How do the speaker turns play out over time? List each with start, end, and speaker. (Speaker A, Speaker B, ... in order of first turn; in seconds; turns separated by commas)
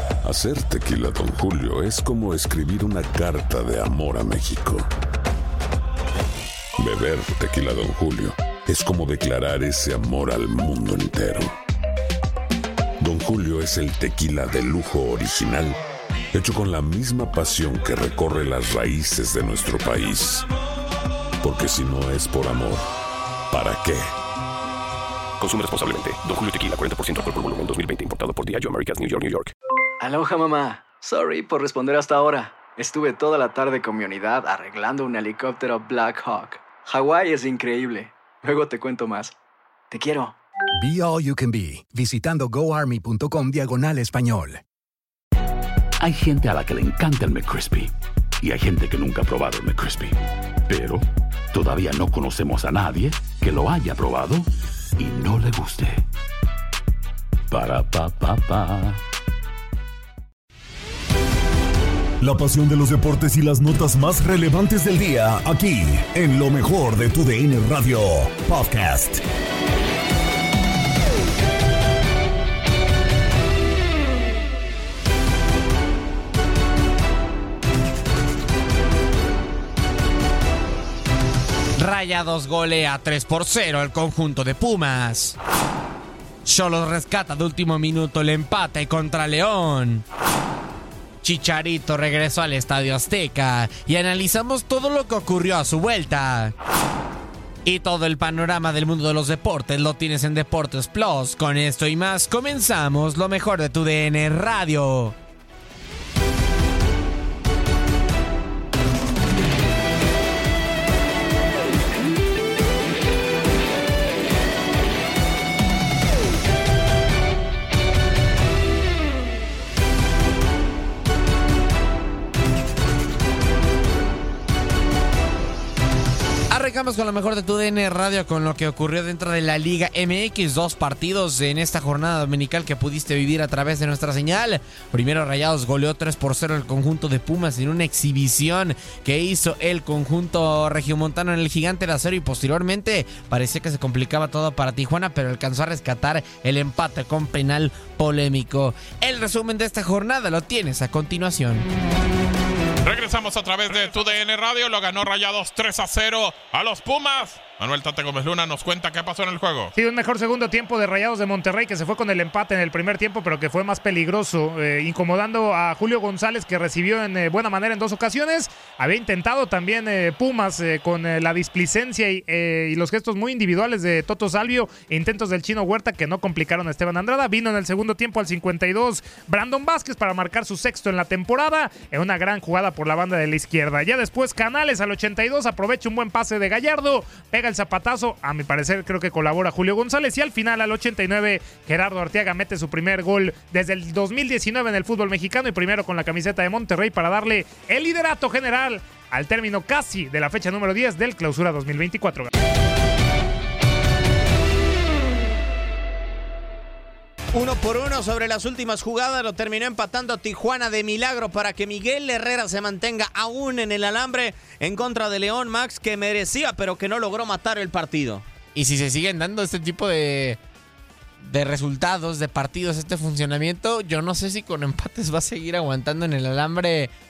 Speaker A: 0.2-4.8, Speaker A: 6.8-11.5, Speaker A: 13.0-15.8, Speaker A: 16.3-20.5, Speaker A: 21.4-22.8, Speaker A: 23.5-24.0, Speaker B: 25.4-29.5, Speaker C: 30.0-39.3, Speaker C: 39.9-40.3, Speaker D: 40.8-44.6, Speaker E: 46.0-56.0, Speaker E: 57.5-59.0, Speaker F: 62.2-69.2, Speaker G: 81.8-85.4, Speaker G: 86.4-90.0, Speaker G: 91.2-96.5, Speaker G: 97.6-105.1, Speaker G: 126.5-151.7, Speaker H: 152.8-159.7, Speaker I: 159.8-202.3, Speaker J: 207.3-218.2, Speaker G: 218.5-220.4, Speaker G: 221.2-226.9